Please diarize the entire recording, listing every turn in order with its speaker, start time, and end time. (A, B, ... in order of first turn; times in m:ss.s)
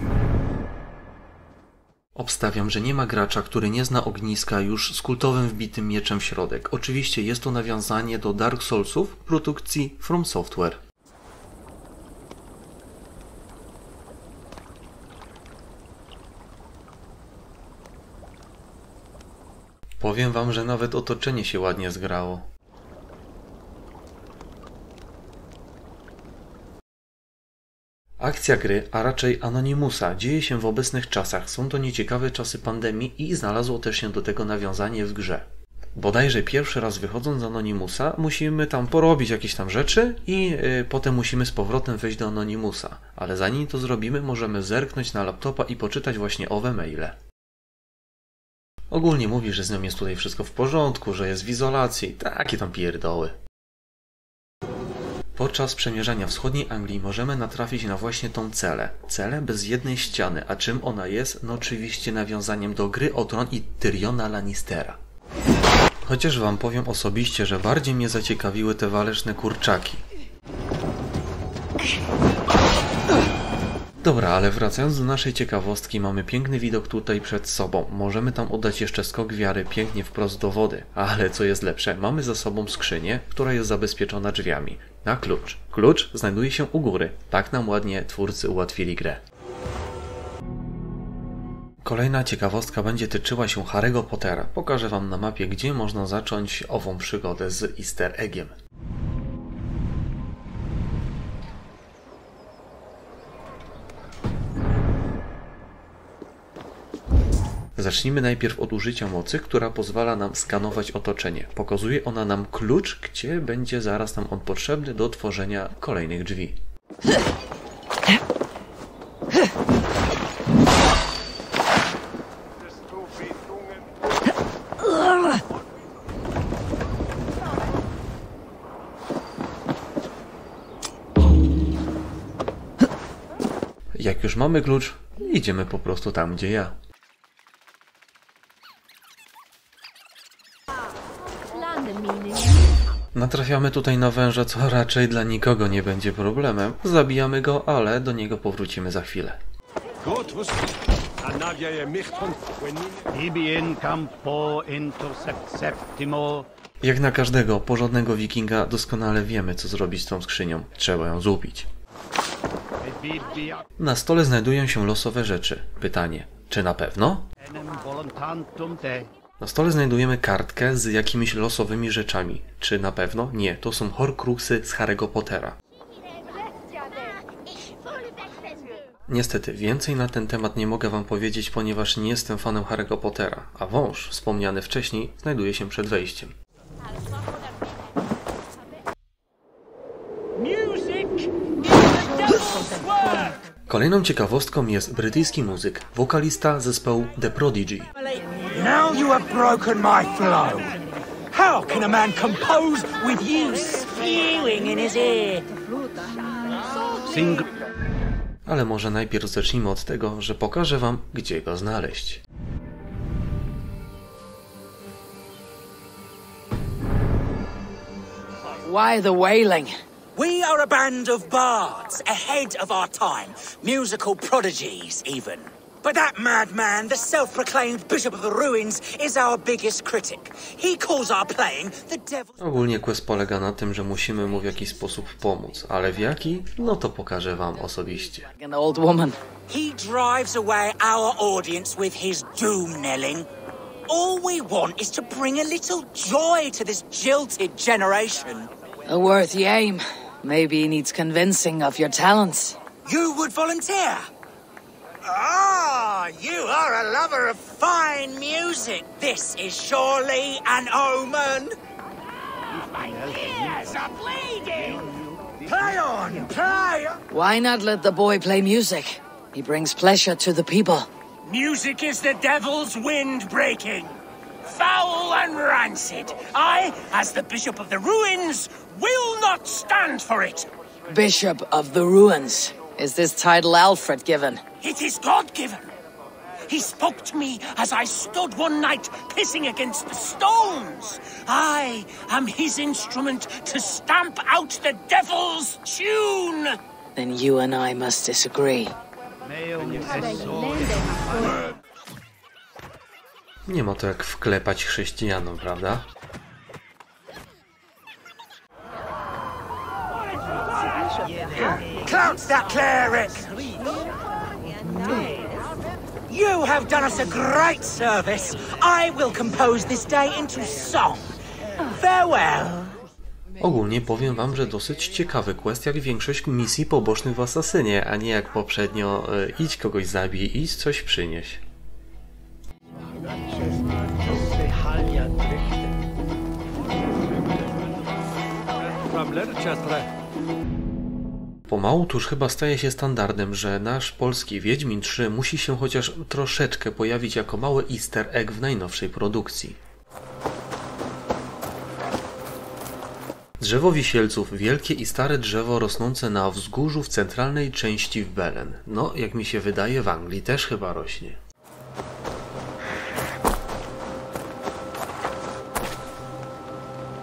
0:02.1-0:10.8 A
0:20.0-0:22.4 A
0:28.2-0:47.1 A
0:48.9-0:53.4 A
0:55.4-1:05.0 A
1:06.0-1:10.0 A
1:14.0-1:29.2 A
1:31.8-1:38.5 A
1:47.8-1:56.6 A
2:14.0-2:16.7 A
2:23.1-2:29.4 A
2:31.3-2:32.3 B
2:33.1-2:36.4 B
2:36.8-2:41.7 A
2:42.8-2:43.6 B
2:43.8-2:47.2 A
2:47.5-2:49.1 B
2:49.4-2:55.6 A
2:59.1-3:06.3 A
3:10.4-3:11.3 C
3:12.2-3:13.3 C
3:13.7-3:17.9 A
3:18.5-3:20.7 D
3:21.3-3:25.5 D
3:27.0-3:27.5 B
3:28.4-3:32.2 A
3:38.6-3:39.7 E
3:40.1-3:52.3 D
3:52.4-3:58.3 A
3:58.4-3:59.2 E
3:59.5-4:03.3 D
4:03.9-4:08.5 D
4:08.9-4:12.6 E
4:12.8-4:14.1 D
4:15.0-4:21.6 D
4:22.6-4:24.8 C
4:25.4-4:27.0 D
4:27.1-4:30.9 E
4:31.2-4:40.5 C
4:40.9-4:44.4 E
4:44.6-4:45.7 C
4:46.5-4:56.6 C
4:57.0-4:58.7 E
4:59.2-5:01.4 B
5:03.5-5:05.8 A
5:11.5-5:13.3 D
5:16.1-5:22.7 D
5:23.4-5:31.4 A
5:41.5-5:49.6 A
5:53.4-6:01.2 A